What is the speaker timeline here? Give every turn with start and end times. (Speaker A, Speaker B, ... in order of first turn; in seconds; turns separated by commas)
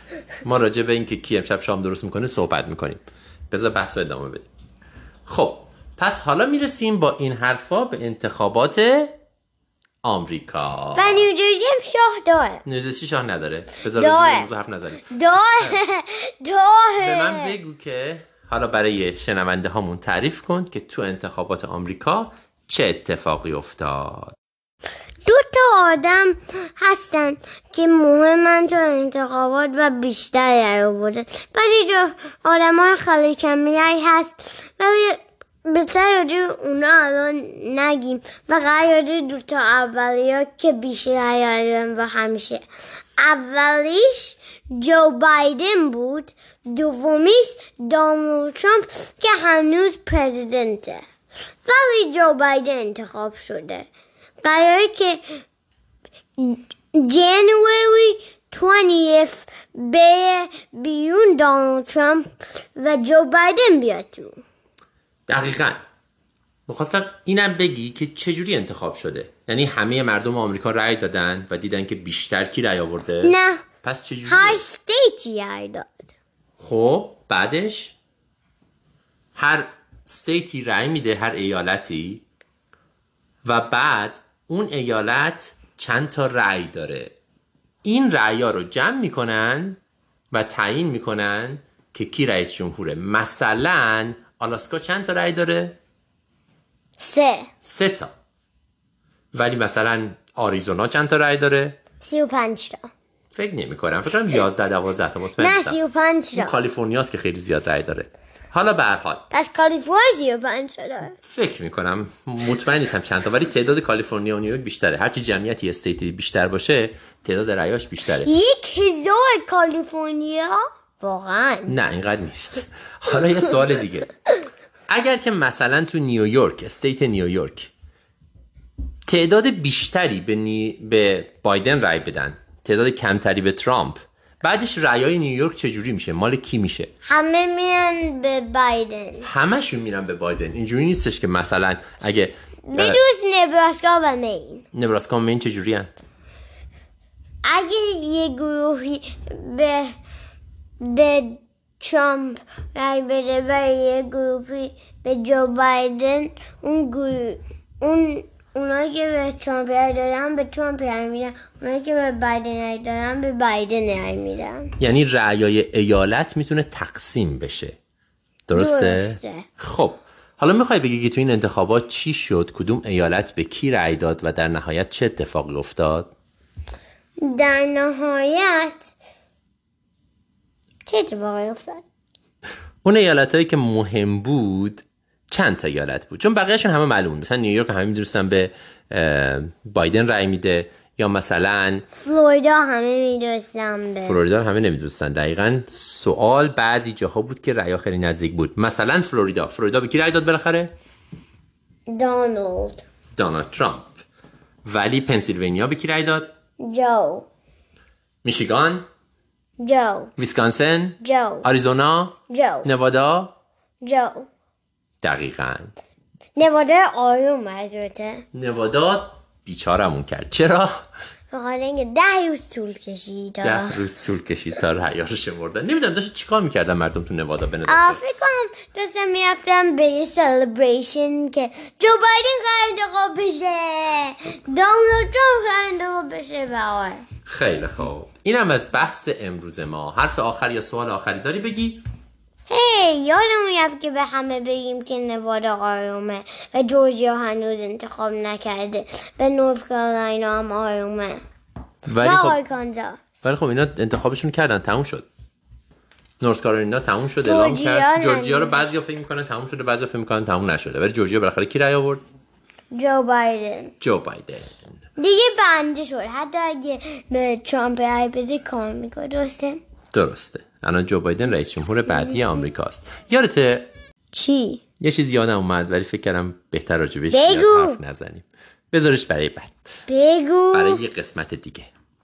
Speaker A: 0.4-4.5, Speaker A: 5.3-9.2, Speaker A: 10.0-11.3, Speaker B: 10.9-12.6, Speaker A: 12.7-15.8, Speaker B: 13.9-14.5, Speaker B: 15.1-17.5, Speaker A: 17.0-24.3, Speaker B: 25.2-42.6, Speaker B: 43.2-51.0, Speaker B: 51.7-53.9, Speaker B: 54.4-55.4, Speaker B: 56.4-64.4, Speaker A: 65.3-65.8, Speaker A: 66.7-74.6, Speaker B: 73.2-73.6, Speaker B: 74.3-76.0, Speaker A: 76.6-78.0, Speaker A: 79.3-82.2, Speaker A: 83.5-87.2, Speaker A: 87.8-89.8, Speaker A: 90.3-95.8, Speaker B: 97.0-97.5, Speaker A: 97.6-98.1, Speaker A: 99.3-101.8, Speaker B: 102.0-102.9, Speaker A: 103.3-105.8, Speaker B: 105.4-106.5, Speaker A: 106.3-109.2, Speaker B: 109.3-111.2, Speaker A: 111.2-118.3, Speaker B: 118.2-121.8, Speaker A: 121.7-124.1, Speaker A: 124.9-127.7, Speaker A: 129.1-136.9, Speaker B: 137.1-139.3, Speaker A: 139.2-143.0, Speaker B: 142.7-144.7, Speaker A: 144.7-145.9, Speaker B: 147.4-149.9, Speaker B: 150.8-164.7, Speaker A: 164.8-167.8, Speaker A: 168.5-176.1, Speaker B: 168.5-169.5, Speaker B: 177.2-178.9, Speaker B: 180.9-181.8, Speaker A: 182.8-191.8, Speaker B: 192.0-194.2, Speaker A: 194.1-200.7, Speaker B: 201.9-202.9, Speaker A: 203.2-203.9, Speaker A: 204.6-206.3, Speaker B: 206.6-207.3, Speaker A: 208.2-208.9, Speaker B: 209.6-210.1, Speaker A: 210.2-213.3, Speaker B: 211.0-211.5, Speaker B: 212.3-212.7, Speaker B: 213.8-214.3, Speaker A: 215.0-215.7, Speaker B: 216.4-218.2, Speaker A: 218.3-220.8, Speaker B: 221.3-223.8, Speaker A: 223.4-228.0, Speaker B: 227.7-237.0, Speaker A: 237.3-241.8, Speaker B: 242.5-251.2, Speaker A: 251.9-252.4, Speaker B: 252.0-253.0, Speaker A: 253.2-255.1, Speaker A: 256.2-262.0, Speaker B: 257.2-258.6, Speaker B: 262.7-263.7, Speaker A: 263.8-264.6, Speaker B: 265.0-269.6, Speaker A: 269.9-273.7, Speaker B: 274.1-274.6, Speaker A: 274.8-279.7, Speaker B: 277.1-277.8, Speaker B: 279.9-280.8, Speaker A: 280.5-281.7